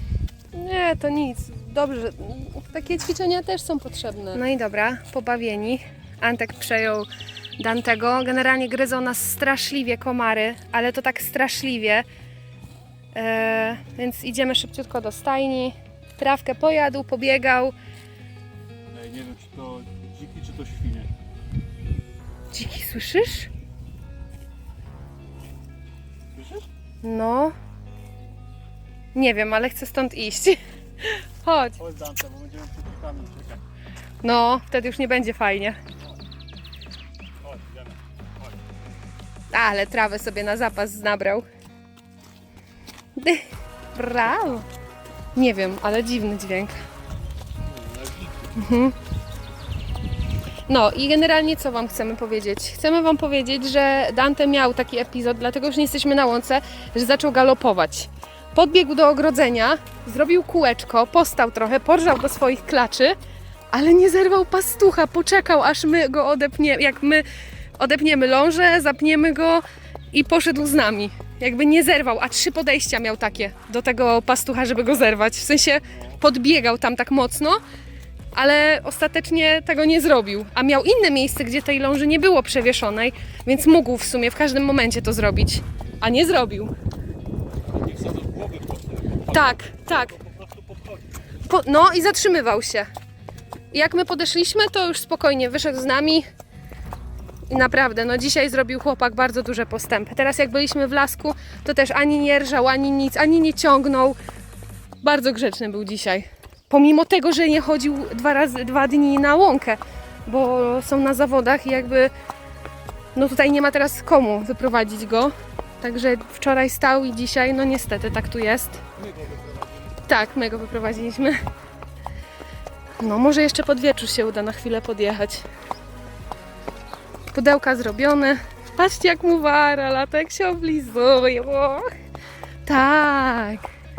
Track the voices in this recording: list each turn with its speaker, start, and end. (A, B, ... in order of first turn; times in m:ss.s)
0:00.5-0:07.1 A
0:07.6-0:12.0 A
0:13.1-0:17.7 A
0:18.9-0:21.1 B
0:22.5-0:23.5 A
0:26.3-0:26.6 B
0:27.0-0:27.5 A
0:29.1-0:31.8 A
0:31.8-0:33.6 B
0:34.2-0:35.8 A
0:37.4-0:38.7 B
0:39.5-0:41.4 A
0:43.2-0:44.7 A
0:45.3-0:46.7 A
0:47.6-0:48.7 B
0:48.6-0:48.9 A
0:50.7-1:03.2 A
1:03.7-1:07.2 A
1:07.8-1:17.6 A
1:15.8-1:16.2 B
1:18.3-1:26.7 A
1:27.6-1:31.2 B
1:29.3-1:30.2 A
1:31.5-1:32.9 A
1:33.7-1:36.2 A
1:37.5-1:44.2 A
1:45.0-1:52.1 A
1:53.1-1:58.8 A
1:58.9-2:00.0 B
2:00.1-2:01.4 A
2:03.0-2:05.4 A
2:07.3-2:11.9 A
2:12.6-2:13.7 A